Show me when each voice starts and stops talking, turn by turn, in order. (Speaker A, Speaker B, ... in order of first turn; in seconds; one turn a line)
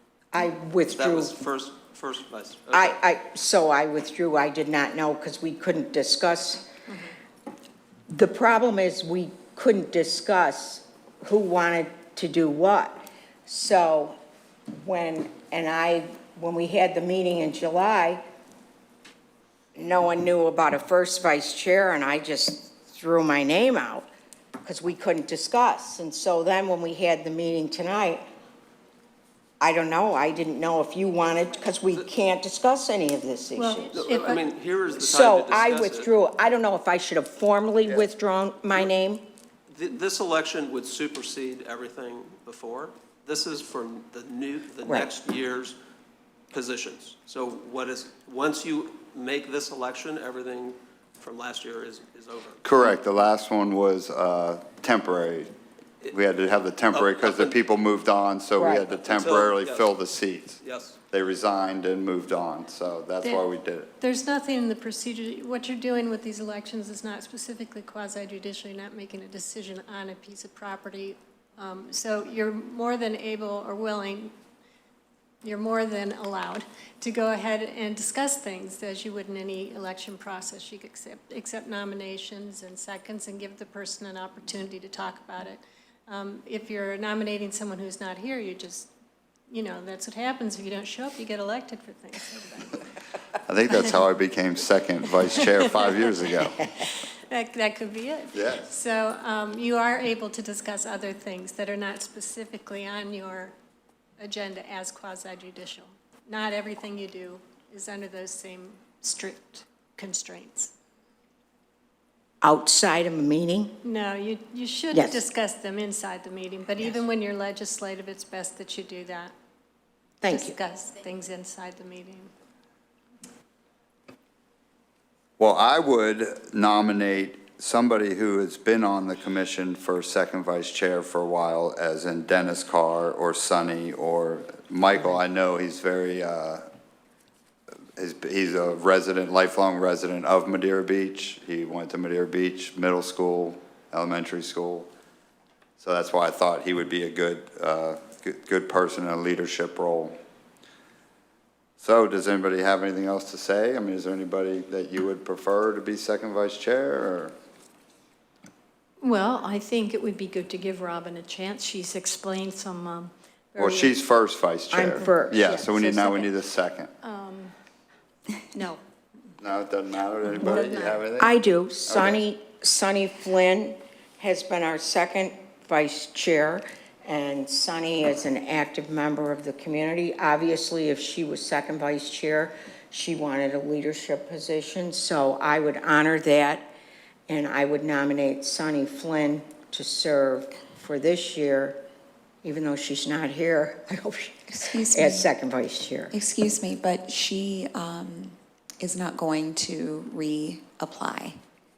Speaker A: 0.3-1.4
Speaker B: 0.9-3.0
Speaker A: 2.7-6.7
Speaker A: 8.1-14.2
Speaker A: 14.7-18.2
Speaker A: 19.8-24.1
Speaker A: 24.6-28.2
Speaker A: 29.6-33.9
Speaker C: 33.6-34.4
Speaker B: 33.9-36.1
Speaker A: 35.0-39.2
Speaker B: 39.7-45.8
Speaker A: 44.9-45.1
Speaker B: 46.5-52.9
Speaker D: 52.6-55.5
Speaker D: 56.1-63.9
Speaker B: 56.9-57.5
Speaker A: 58.6-58.9
Speaker B: 59.0-60.0
Speaker B: 60.6-61.0
Speaker C: 64.0-74.3
Speaker C: 75.4-88.9
Speaker C: 89.5-92.7
Speaker D: 93.5-96.5
Speaker C: 95.4-96.0
Speaker C: 97.3-103.5
Speaker D: 98.3-98.7
Speaker C: 104.2-110.7
Speaker A: 112.4-113.7
Speaker C: 113.8-119.3
Speaker A: 114.9-115.3
Speaker A: 120.2-120.6
Speaker C: 120.3-122.3
Speaker D: 125.4-136.6
Speaker D: 138.0-144.9
Speaker D: 145.8-150.1
Speaker D: 151.8-157.3
Speaker E: 159.0-163.9
Speaker D: 163.6-166.9
Speaker A: 164.7-166.3
Speaker E: 167.0-167.5
Speaker E: 168.5-168.8
Speaker D: 169.4-171.3
Speaker E: 170.3-171.0
Speaker A: 170.4-186.7
Speaker D: 171.9-172.2
Speaker A: 187.3-191.8
Speaker A: 192.4-196.1
Speaker F: 194.5-195.3
Speaker F: 196.1-201.4